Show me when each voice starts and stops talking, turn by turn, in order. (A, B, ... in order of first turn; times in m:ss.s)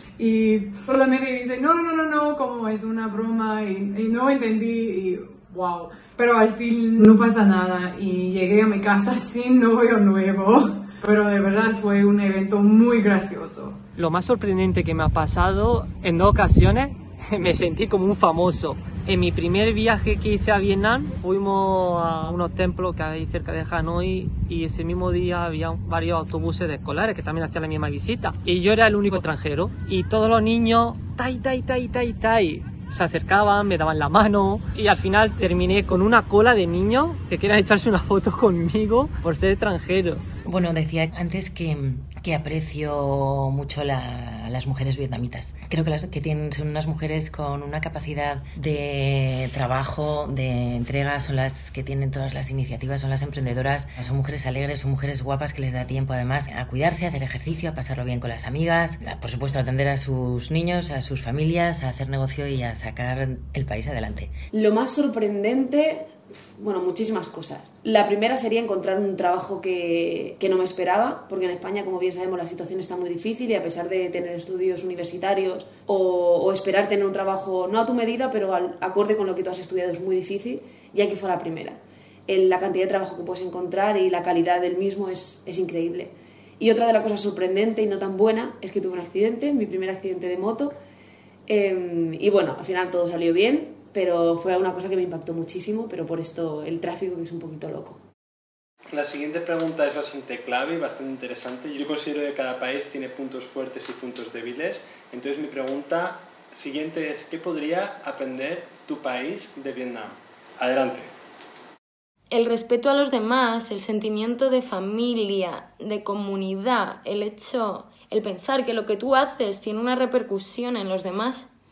0:00.2-0:13.8 A
0:14.0-0:40.2 B
0:40.4-1:04.3 C
1:04.5-1:30.7 D
1:31.5-1:38.0 D
1:38.9-1:51.1 E
1:52.3-2:01.5 F